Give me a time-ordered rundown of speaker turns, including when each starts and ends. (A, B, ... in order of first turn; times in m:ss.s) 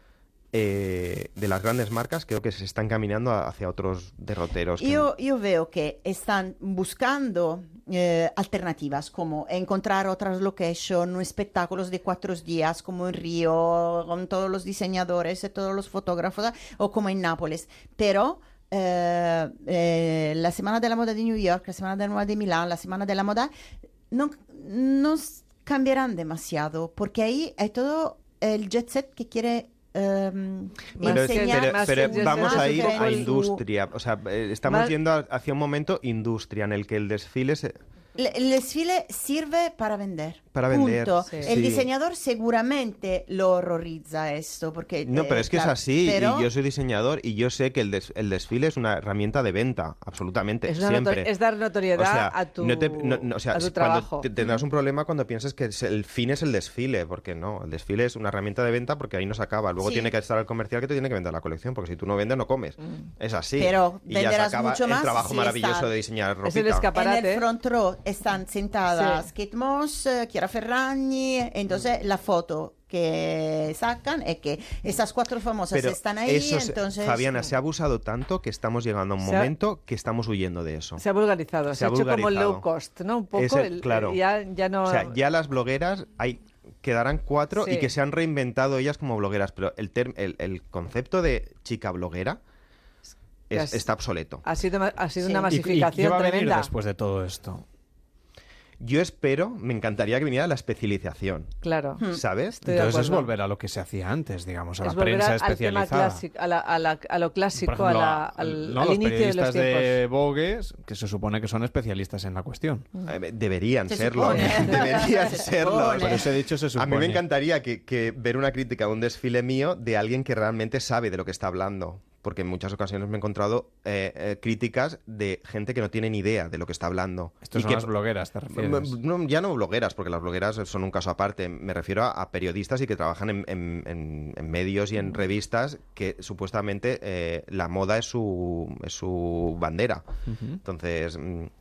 0:00.5-0:05.1 A
0:04.8-0:23.5 B
0:24.1-0:33.6 B
0:30.9-0:33.5 C
0:31.0-0:37.8 A
0:34.6-0:34.9 C
0:38.2-0:46.5 B
0:40.5-0:41.9 A
0:41.2-0:41.6 C
0:45.0-0:51.3 A
0:50.7-0:54.3 C
0:51.9-1:06.9 A
0:59.8-1:00.1 B
1:02.8-1:03.1 C
1:03.6-1:05.9 B
1:06.4-1:07.5 C
1:06.9-1:17.3 B
1:08.9-1:09.3 C
1:15.7-1:21.0 A
1:19.2-1:19.5 C
1:21.0-1:25.1 C
1:21.7-1:22.7 A
1:23.3-1:24.2 A
1:24.8-1:32.4 A
1:27.5-1:27.9 C
1:33.5-1:34.4 A
1:33.5-1:33.8 C
1:34.4-1:36.7 C
1:35.2-1:35.5 B
1:35.5-1:37.6 D
1:38.8-1:41.5 A
1:41.6-1:43.3 C
1:42.1-1:42.6 A
1:42.6-1:46.2 D
1:44.8-1:50.0 C
1:47.5-1:52.9 D
1:53.1-2:07.9 A
1:53.9-1:56.2 B
1:54.2-1:54.9 C
1:56.0-1:57.2 D
2:07.4-2:08.9 D
2:08.6-2:20.0 A
2:20.3-2:20.6 D
2:20.6-2:21.5 A